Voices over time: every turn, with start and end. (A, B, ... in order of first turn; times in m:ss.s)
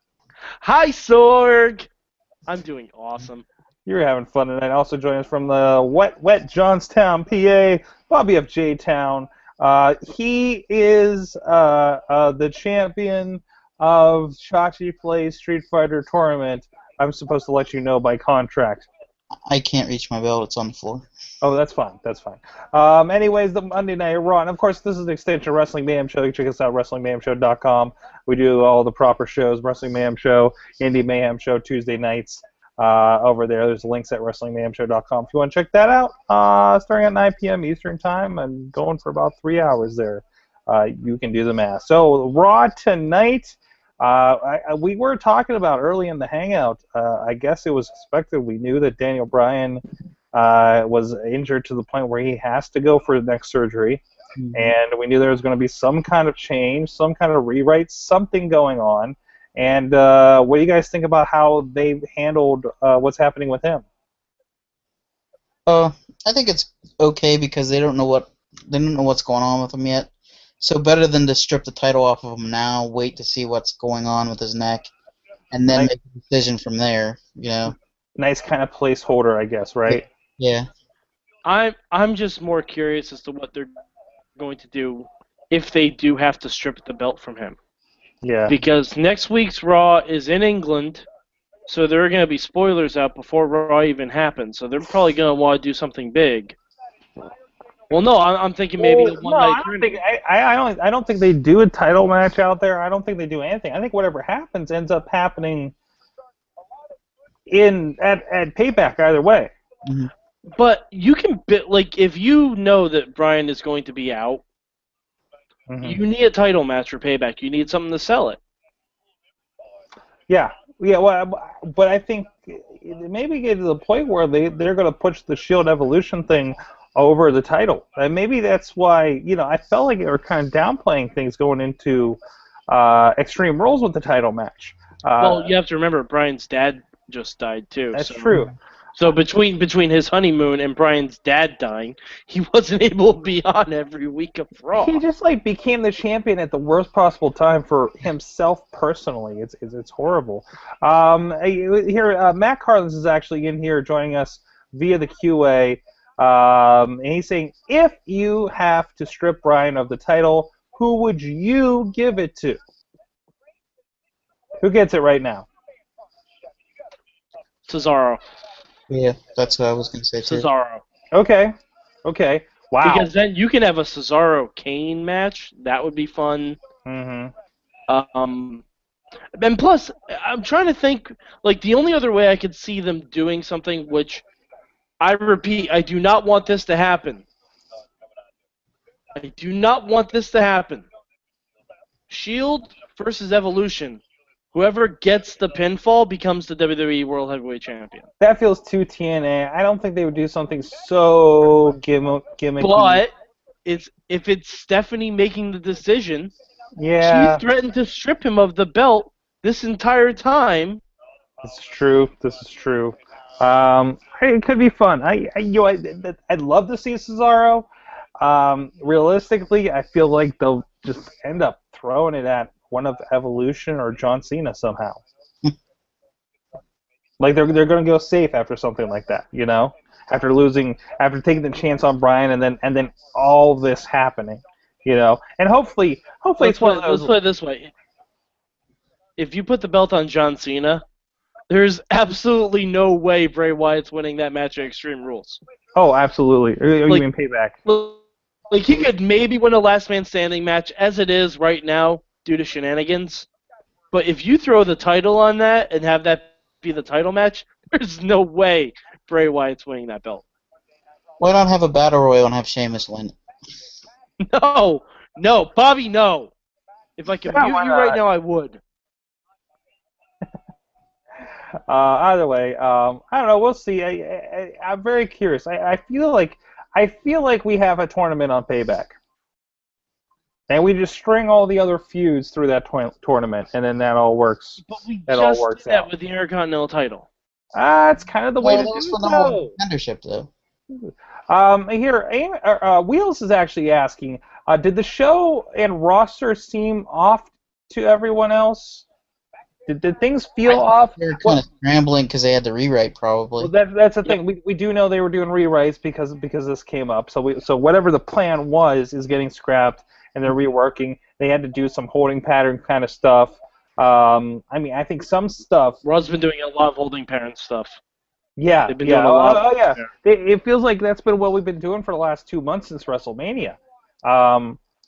0:00.6-0:01.9 A
0:02.5-0:03.4 A
0:03.8-0:18.9 B
0:19.5-0:21.1 C
0:21.4-0:49.8 B
0:50.3-0:54.0 B
0:54.4-0:54.7 C
0:54.5-1:03.8 B
1:05.7-1:14.9 C
1:15.5-1:17.7 C
1:18.2-1:20.0 B
1:19.8-1:20.7 C
1:21.4-1:23.7 A
1:24.4-1:27.6 A
1:28.2-1:28.5 B
1:28.5-1:31.0 A
1:31.7-1:36.6 A
1:37.9-1:40.0 A
1:38.8-1:45.7 B
1:47.5-1:49.5 B
1:50.6-1:54.4 A
1:55.7-1:56.0 B
1:55.8-1:58.4 A
2:00.3-2:15.5 B
2:15.2-2:18.3 A
2:17.9-2:18.5 B
2:19.0-2:25.0 A
2:24.8-2:42.6 B
2:44.6-2:45.5 B
2:47.7-2:48.2 A
2:48.9-2:50.5 C
2:50.2-2:50.8 A
2:51.1-2:51.5 B
2:52.0-2:53.1 B
2:52.8-2:56.6 A
2:56.8-2:57.3 B
2:57.9-2:58.6 A
2:59.4-3:04.2 A
3:05.0-3:07.2 A
3:09.2-3:10.9 A
3:12.1-3:14.0 A
3:14.5-3:18.1 A
3:18.2-3:23.0 B
3:22.6-3:23.1 A
3:23.6-3:26.3 A
3:26.8-3:27.4 B
3:27.0-3:30.8 A
3:31.4-3:37.7 B
3:38.2-3:45.0 B
3:47.2-3:57.1 B
3:56.4-3:57.7 A
3:59.2-4:00.8 A
4:01.5-4:05.4 A
4:05.8-4:07.6 B
4:07.6-4:08.0 A
4:08.5-4:13.3 A
4:13.9-4:20.2 A
4:21.2-4:23.1 C
4:24.3-4:26.3 A
4:27.0-4:28.6 A
4:27.3-4:28.0 B
4:31.7-4:38.9 B
4:40.5-4:45.9 B
4:44.6-4:47.1 A
4:47.5-4:49.5 B
4:48.4-4:50.3 C
4:50.8-4:58.8 B
4:59.7-5:01.4 B
5:00.4-5:03.5 C
5:03.4-5:15.8 B
5:15.8-5:17.8 A
5:18.4-5:24.6 B
5:18.7-5:19.8 A